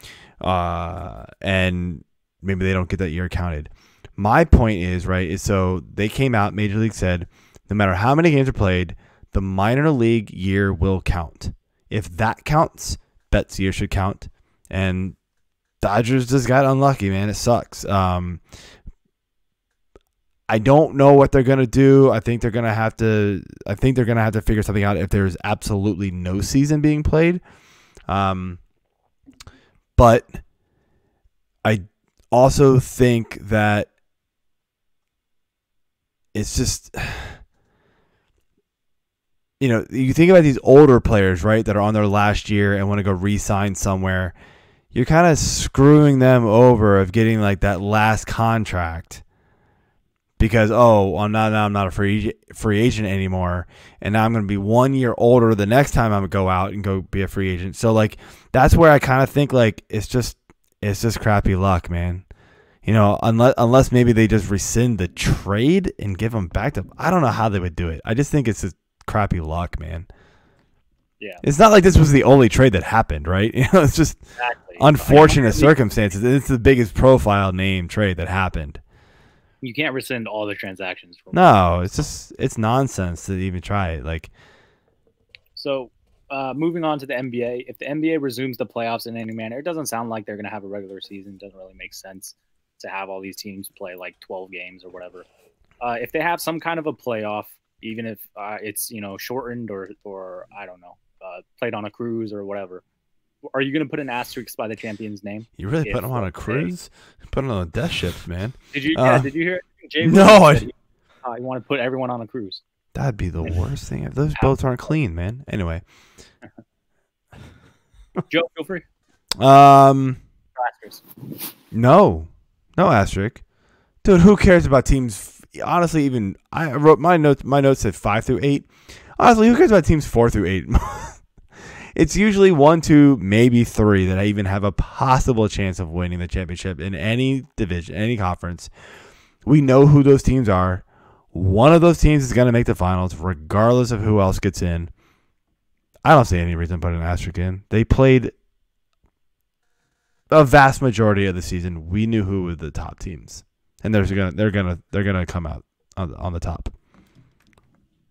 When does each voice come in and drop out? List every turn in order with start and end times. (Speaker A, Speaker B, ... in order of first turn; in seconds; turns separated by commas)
Speaker A: 0.4-15.2, Speaker A: 15.8-18.4, Speaker A: 20.5-27.4, Speaker A: 28.1-28.6, Speaker A: 29.9-30.4, Speaker A: 31.6-33.9, Speaker A: 36.3-37.4, Speaker A: 39.6-44.3, Speaker A: 44.9-49.2, Speaker A: 50.4-62.2, Speaker A: 62.8-70.1, Speaker A: 71.4-74.2, Speaker B: 74.4-75.8, Speaker A: 74.8-78.8, Speaker B: 79.6-82.0, Speaker A: 81.3-84.3, Speaker B: 85.5-95.3, Speaker B: 95.8-102.8, Speaker B: 103.4-106.7, Speaker A: 105.6-109.3, Speaker B: 108.7-112.6, Speaker A: 110.0-110.7, Speaker A: 112.9-115.8, Speaker B: 118.3-118.8, Speaker A: 119.4-120.2, Speaker B: 120.6-121.0, Speaker A: 121.7-123.4, Speaker A: 124.0-131.2, Speaker A: 131.9-138.7, Speaker A: 139.4-144.9, Speaker A: 146.0-148.3, Speaker A: 150.3-156.7